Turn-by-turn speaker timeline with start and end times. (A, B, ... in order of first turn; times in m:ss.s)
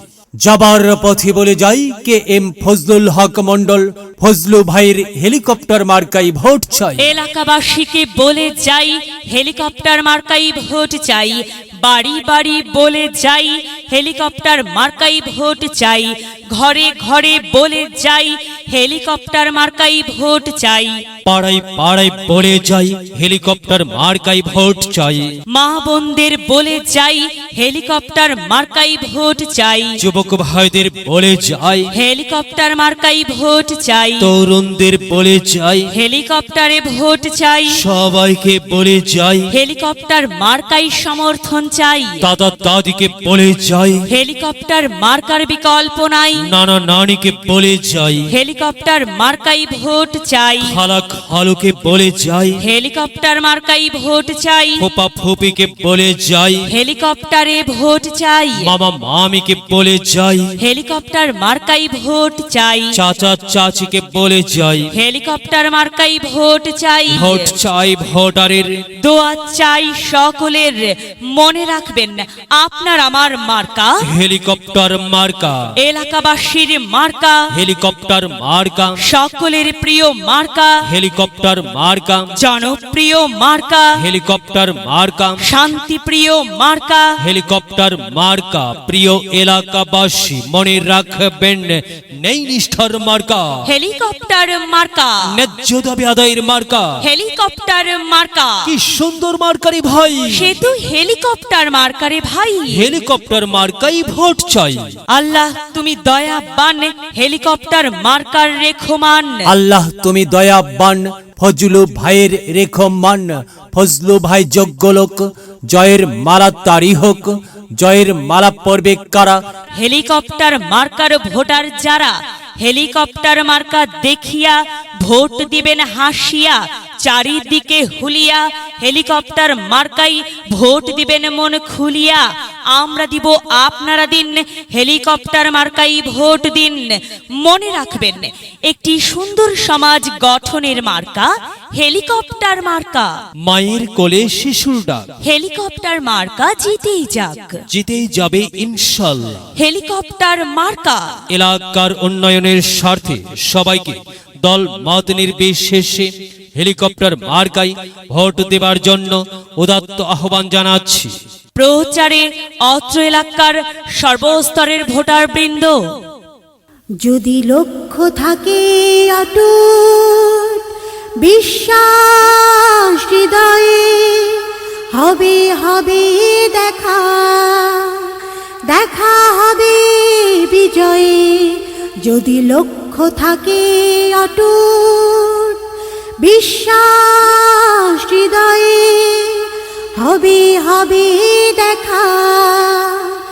0:00.4-0:07.1 A
0:07.0-0:21.0 B
0:21.2-0:25.4 C
0:25.5-0:30.0 B
0:30.0-0:31.9 C
0:31.9-0:34.3 B
0:34.2-0:35.9 C
0:35.9-0:37.8 B
0:37.7-0:39.5 C
0:39.5-0:42.3 B
0:42.2-0:44.0 C
0:44.1-0:46.5 B
0:46.4-0:48.3 C
0:48.3-0:50.8 B
0:50.6-0:52.6 C
0:52.6-0:54.8 B
0:54.8-0:56.6 C
0:56.6-0:58.7 B
0:58.6-1:00.5 C
1:00.6-1:03.0 B
1:02.9-1:04.9 C
1:04.9-1:07.5 B
1:07.1-1:08.8 C
1:09.0-1:14.0 B
1:14.0-1:15.7 C
1:15.8-1:17.5 B
1:17.5-1:19.0 C
1:19.0-1:20.8 B
1:20.9-1:22.3 C
1:22.3-1:24.0 B
1:24.0-1:25.4 C
1:25.4-1:27.2 B
1:27.2-1:33.6 C
1:33.6-1:35.3 B
1:35.3-1:37.0 C
1:37.0-1:38.7 B
1:38.6-1:40.6 C
1:40.3-1:42.9 B
1:42.7-1:44.9 C
1:45.1-1:49.5 B
1:49.5-1:59.4 A
1:59.8-2:23.1 B
2:23.4-2:25.1 C
2:25.2-2:27.6 B
2:27.7-2:29.4 C
2:29.6-2:31.2 B
2:31.3-2:41.1 C
2:41.6-2:45.8 B
2:47.0-2:50.6 D
2:51.2-2:58.1 D
2:58.7-3:05.6 D
3:06.2-3:13.2 D